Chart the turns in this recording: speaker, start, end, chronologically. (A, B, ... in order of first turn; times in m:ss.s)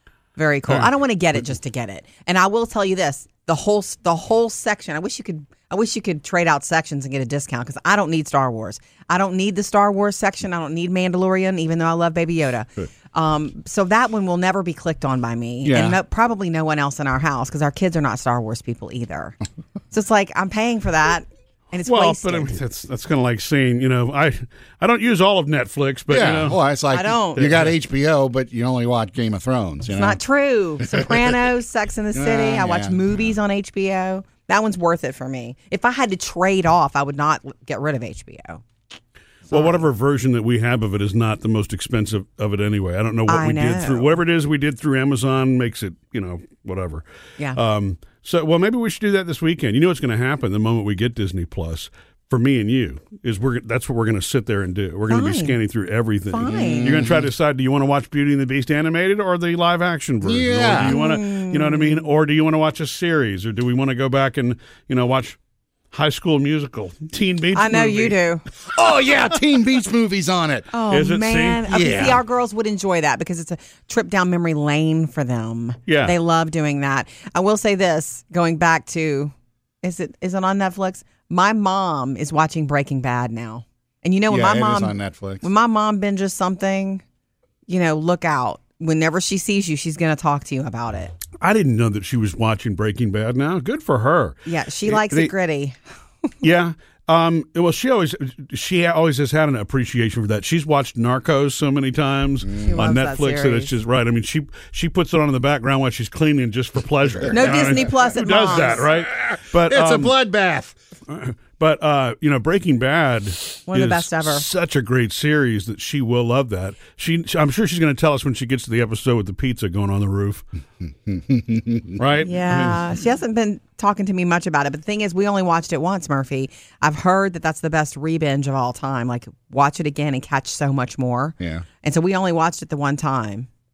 0:00.4-0:19.4 A
0:15.6-0:16.0 B
0:19.9-0:22.6 A
0:21.8-0:26.6 C
0:26.1-0:30.2 B
0:26.9-0:27.5 A
0:27.4-0:27.7 C
0:29.9-0:38.6 A
0:30.8-0:31.3 B
0:32.1-0:33.2 B
0:39.5-0:39.9 A
0:39.5-1:05.4 C
0:43.3-0:44.2 A
0:55.1-0:55.6 A
0:56.3-0:57.0 A
0:56.4-0:57.3 B
1:00.2-1:01.0 B
1:00.8-1:02.1 A
1:05.9-1:08.2 C
1:07.5-1:08.5 A
1:08.6-1:10.7 B
1:10.7-1:27.0 A
1:10.9-1:11.8 C
1:11.7-1:12.2 B
1:15.9-1:16.2 C
1:24.3-1:25.5 B
1:27.7-1:31.2 A
1:31.4-1:35.3 C
1:34.4-1:36.3 A
1:36.4-1:50.1 C
1:42.4-1:42.9 B
1:42.6-1:43.7 A
1:47.3-1:48.8 A
1:48.9-1:50.7 B
1:51.1-2:00.4 C
1:53.7-1:54.5 A
2:01.0-2:02.0 B
2:02.0-2:02.8 C
2:02.2-2:13.5 A
2:11.4-2:11.6 B